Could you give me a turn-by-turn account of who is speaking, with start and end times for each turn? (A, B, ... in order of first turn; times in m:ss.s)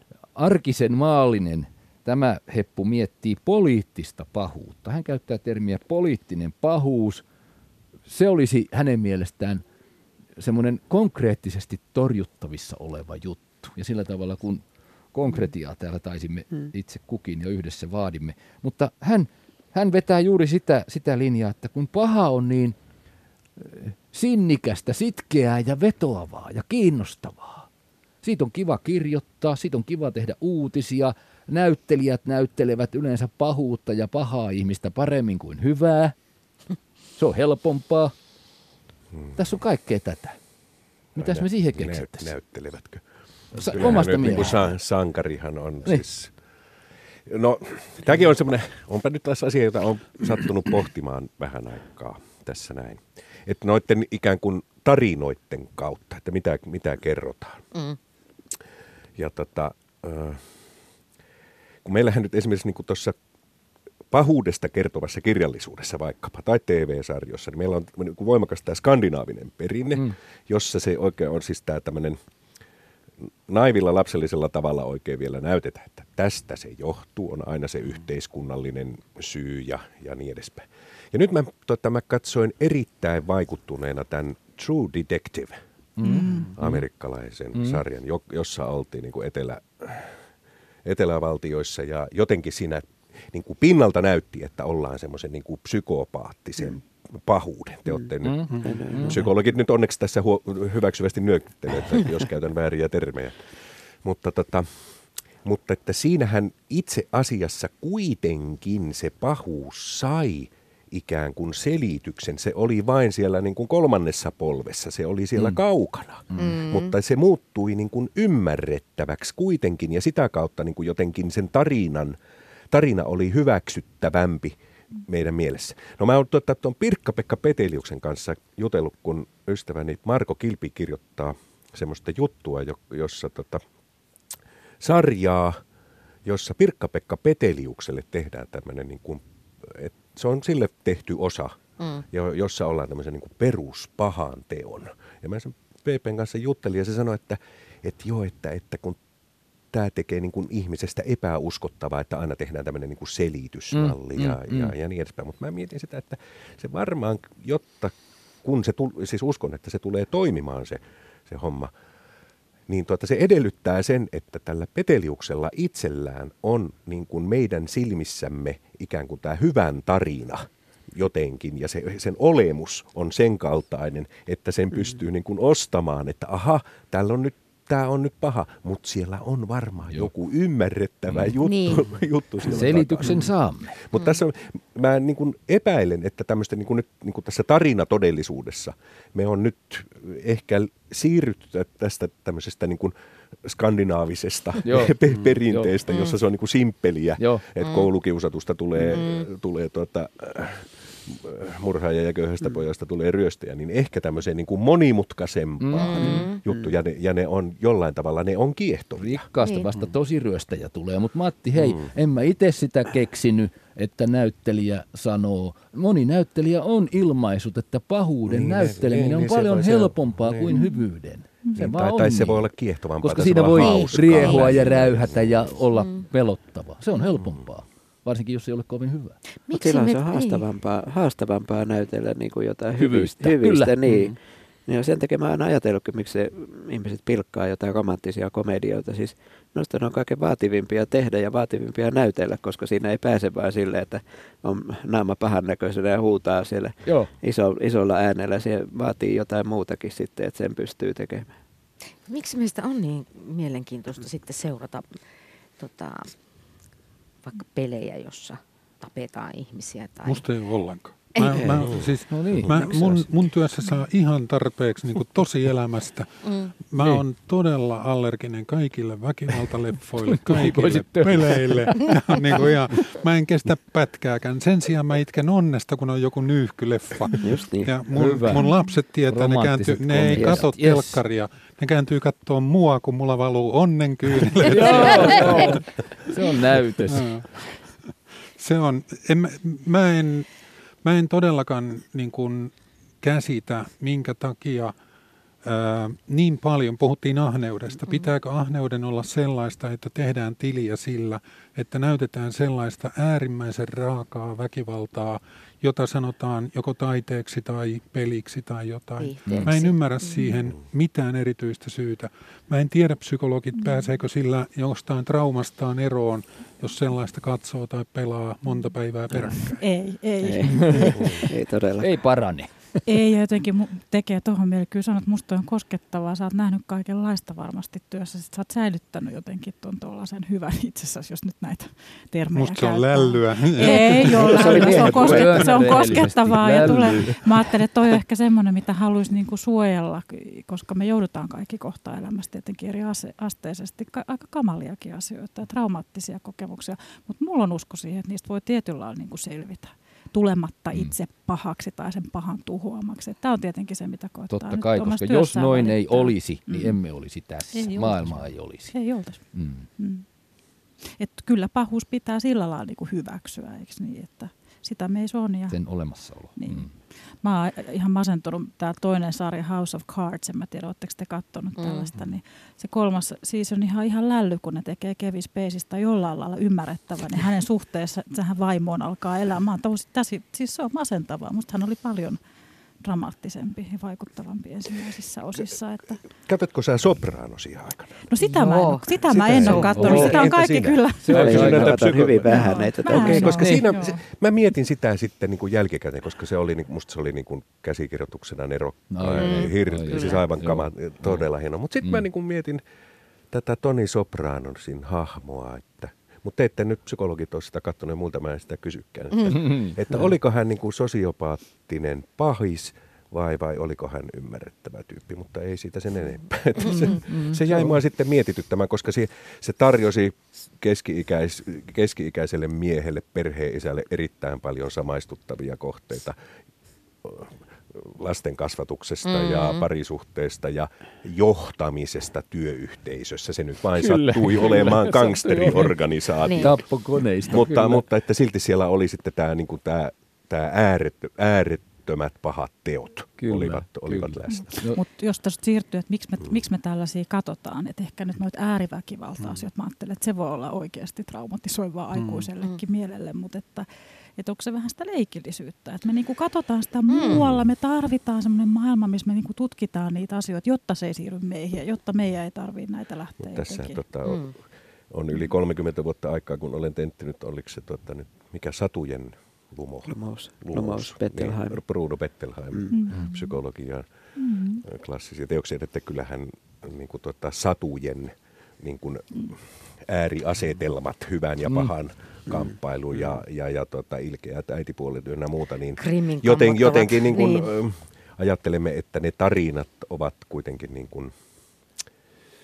0:00.4-0:07.2 A
0:08.1-0:09.6 A
0:10.4-0:22.8 A
0:23.6-0:27.7 A
0:28.2-0:36.1 A
0:37.2-0:38.1 A
0:39.3-0:40.4 A
0:41.1-0:42.3 A
0:41.2-0:43.0 B
0:43.5-0:44.7 A
0:43.6-0:46.3 B
0:47.2-0:57.6 B
0:59.2-1:00.5 B
1:01.8-1:03.2 B
1:04.1-1:12.2 B
1:13.5-1:25.6 B
1:26.0-1:26.8 A
1:26.0-1:26.5 C
1:26.6-1:30.2 B
1:27.5-1:27.8 A
1:30.8-1:43.4 B
1:38.2-1:39.2 A
1:38.5-1:38.8 D
1:38.6-1:39.2 E
1:44.0-1:44.8 B
1:45.4-2:02.2 B
1:56.4-1:56.9 F
2:02.7-2:13.6 B
2:14.8-2:15.6 B
2:16.2-2:21.6 B
2:22.1-2:29.0 B
2:29.7-2:41.7 B
2:33.7-2:34.7 A
2:42.7-3:03.2 B
3:01.4-3:01.9 F
3:02.5-3:03.7 A
3:03.7-3:29.2 B
3:03.9-3:04.2 F
3:14.6-3:15.7 A
3:17.2-3:17.4 A
3:17.6-3:17.9 F
3:18.8-3:19.3 F
3:25.6-3:26.2 A
3:25.8-3:26.4 F
3:29.0-3:49.2 A
3:29.4-3:29.7 F
3:31.6-3:31.9 B
3:38.3-3:40.6 B
3:40.5-3:40.8 C
3:41.6-3:45.5 B
3:43.6-3:44.7 F
3:45.7-3:46.0 F
3:49.5-3:50.4 F
3:49.5-4:11.3 E
3:52.8-3:53.8 A
3:53.9-3:54.1 D
4:06.8-4:07.1 A
4:12.1-4:15.0 F
4:15.6-4:16.1 F
4:17.2-4:20.2 F
4:20.0-4:26.1 D
4:21.1-4:21.5 F
4:21.4-4:21.7 E
4:22.1-4:23.1 A
4:26.2-4:26.5 F
4:26.7-4:45.6 D
4:26.8-4:27.0 A
4:30.1-4:31.9 A
4:37.2-4:37.7 E
4:37.9-4:38.5 A
4:39.1-4:41.0 A
4:40.1-4:40.4 E
4:44.4-4:47.2 A
4:46.9-4:47.6 D
4:48.4-4:50.3 D
4:50.8-4:54.7 D
4:55.4-5:19.6 D
4:57.8-4:58.1 F
5:09.0-5:10.4 F
5:09.2-5:09.5 A
5:13.6-5:14.0 C
5:18.4-5:21.3 C
5:20.2-5:22.0 E
5:20.7-5:21.2 A
5:21.8-5:22.9 A
5:22.8-5:56.8 C
5:32.3-5:34.8 D
5:33.6-5:35.9 E
5:34.5-5:37.2 A
5:54.3-5:58.8 A
5:57.5-5:59.2 C
5:59.3-5:59.7 A
5:59.8-6:00.0 C
6:00.8-6:05.6 C
6:05.5-6:06.7 A
6:06.4-6:22.2 C
6:11.6-6:11.9 F
6:22.8-6:26.0 C
6:26.2-6:28.0 B
6:28.1-6:31.5 C
6:28.2-6:30.1 F
6:29.1-6:42.6 B
6:29.4-6:30.2 A
6:31.0-6:32.1 A
6:31.1-6:33.5 E
6:32.3-6:34.0 C
6:33.1-6:33.6 A
6:38.9-6:41.2 A
6:39.1-6:40.2 F
6:43.3-7:06.2 B
6:49.3-6:50.1 A
6:56.7-6:57.8 A
7:07.0-7:16.6 B
7:09.0-7:09.6 F
7:13.8-7:15.8 A
7:16.2-7:16.5 F
7:16.4-7:17.9 A
7:17.3-7:24.5 B
7:23.2-7:24.8 A
7:24.3-7:43.8 C
7:31.9-7:32.3 D
7:36.9-7:37.2 F
7:43.2-7:44.3 B
7:44.0-7:44.3 F
7:44.9-7:53.9 B
7:49.9-7:51.6 E
7:52.7-7:53.3 C
7:54.2-7:54.6 C
7:54.6-8:11.1 B
8:05.8-8:07.5 F